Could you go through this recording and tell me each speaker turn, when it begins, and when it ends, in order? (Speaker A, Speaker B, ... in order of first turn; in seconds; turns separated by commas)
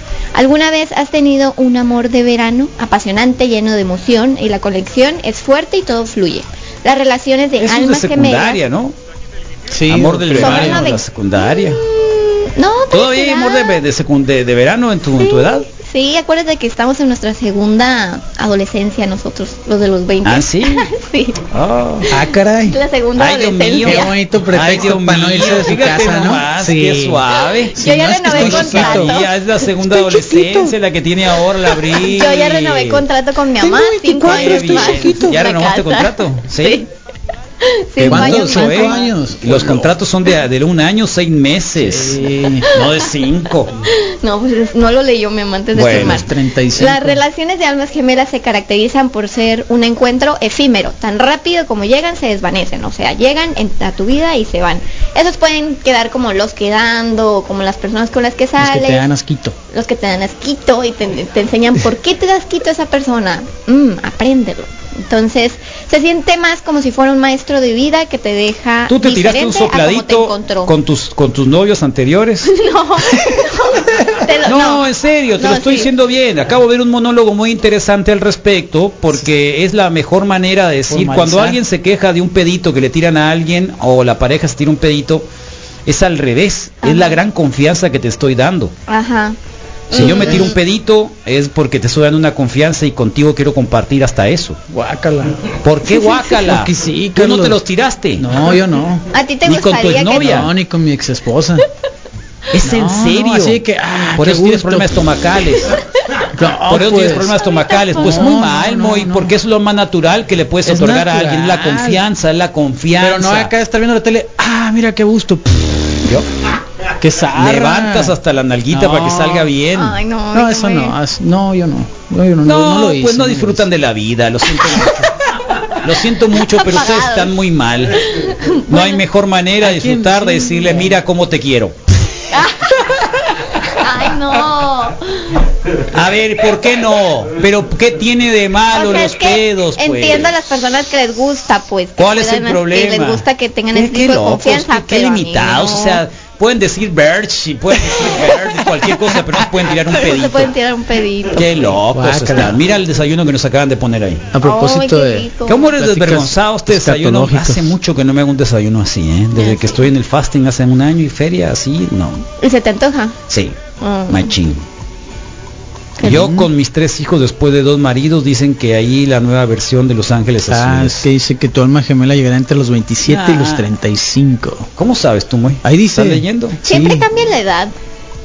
Speaker A: 0.3-8.6, Speaker B: 7.6-8.9, Speaker C: 9.7-10.9, Speaker B: 9.9-11.8, Speaker A: 10.3-13.8, Speaker B: 12.9-15.7, Speaker A: 15.2-21.4, Speaker B: 20.2-20.9, Speaker B: 21.5-22.1, Speaker C: 22.1-22.8, Speaker A: 22.7-24.1, Speaker B: 23.2-33.0, Speaker C: 23.8-29.2, Speaker A: 27.8-29.3, Speaker C: 29.8-30.7, Speaker A: 31.9-36.9, Speaker C: 33.6-35.5, Speaker B: 34.2-36.8, Speaker A: 37.6-39.1, Speaker B: 38.0-43.7, Speaker C: 38.1-39.9, Speaker C: 41.8-42.7, Speaker A: 42.7-43.0, Speaker A: 43.8-59.1, Speaker B: 45.7-46.2, Speaker C: 45.8-47.2, Speaker C: 58.6-59.5, Speaker A: 59.7-70.7, Speaker B: 68.9-72.5, Speaker A: 72.5-75.9, Speaker B: 74.5-85.2, Speaker C: 80.9-81.6, Speaker B: 85.8-88.7, Speaker A: 86.8-87.2, Speaker A: 88.9-89.3, Speaker A: 89.9-90.5, Speaker B: 89.9-94.6, Speaker C: 90.0-90.4, Speaker C: 94.7-95.5, Speaker B: 95.6-98.3, Speaker C: 96.1-97.6, Speaker C: 98.2-99.0, Speaker A: 99.1-100.5, Speaker B: 99.5-100.5, Speaker C: 100.1-101.6, Speaker B: 102.5-103.6, Speaker C: 102.6-105.1, Speaker B: 104.2-105.8, Speaker C: 106.2-107.4, Speaker B: 106.7-113.5, Speaker C: 107.9-109.3, Speaker C: 110.6-112.0, Speaker C: 113.0-116.0, Speaker C: 117.0-118.2, Speaker B: 117.3-120.0, Speaker C: 118.7-119.5, Speaker A: 119.7-120.9, Speaker C: 120.3-123.7, Speaker B: 122.4-128.1, Speaker A: 126.3-127.3, Speaker A: 128.0-129.0, Speaker B: 128.7-132.2, Speaker C: 129.6-131.0, Speaker A: 132.3-135.4, Speaker B: 135.9-140.4, Speaker A: 138.7-146.0, Speaker B: 142.0-150.5, Speaker A: 149.8-151.8, Speaker B: 151.3-154.3, Speaker C: 151.9-152.6, Speaker C: 154.3-157.8, Speaker A: 154.4-155.7, Speaker B: 155.5-162.2, Speaker A: 159.3-159.8, Speaker A: 162.4-163.2, Speaker B: 163.3-163.6, Speaker A: 163.8-164.3, Speaker B: 164.1-164.6, Speaker B: 166.0-171.0, Speaker C: 166.0-166.5, Speaker C: 170.5-174.7, Speaker B: 173.1-173.7, Speaker B: 174.8-176.6, Speaker C: 175.6-177.1, Speaker A: 176.6-177.7